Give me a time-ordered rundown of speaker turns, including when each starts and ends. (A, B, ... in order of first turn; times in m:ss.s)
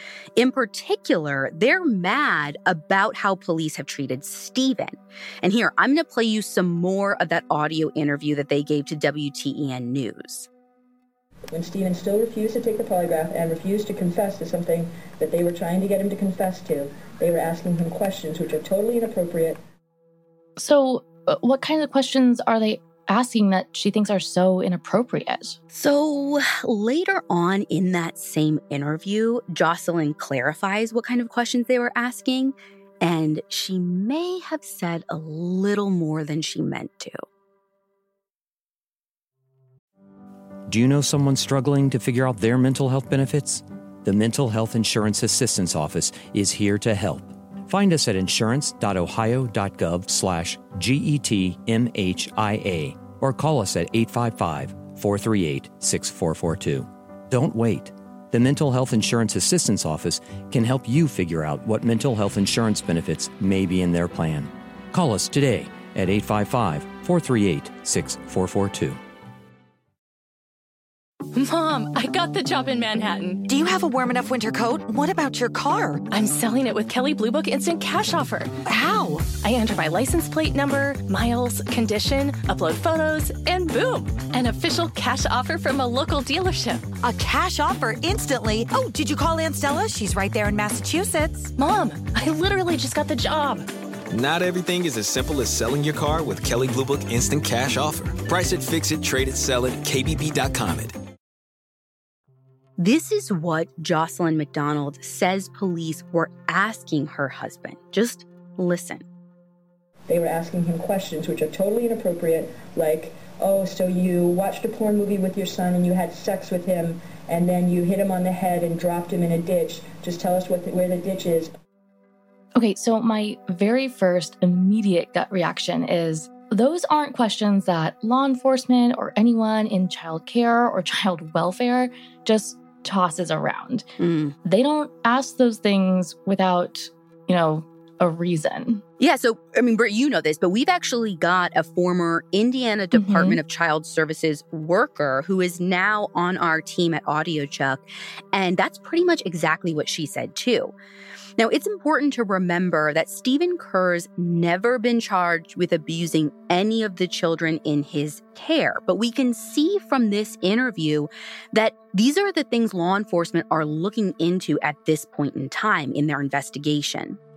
0:00.4-0:10.5 A
0:11.5-0:19.6 B
0:20.6-0:25.6 C
0:25.7-0:37.2 A
0:40.7-1:09.0 D
1:11.3-1:13.4 E
1:13.5-1:16.0 F
1:16.0-1:18.6 E
1:18.7-1:19.3 F
1:19.3-1:27.0 E
1:27.0-1:31.5 F
1:31.5-1:33.7 E
1:34.1-1:40.9 G
1:42.8-1:49.0 A
1:50.1-2:01.5 B
2:02.6-2:13.8 C
2:14.0-2:14.4 A
2:14.4-2:18.8 C
2:19.0-2:30.7 A
2:22.9-2:23.4 C
2:31.4-2:47.2 A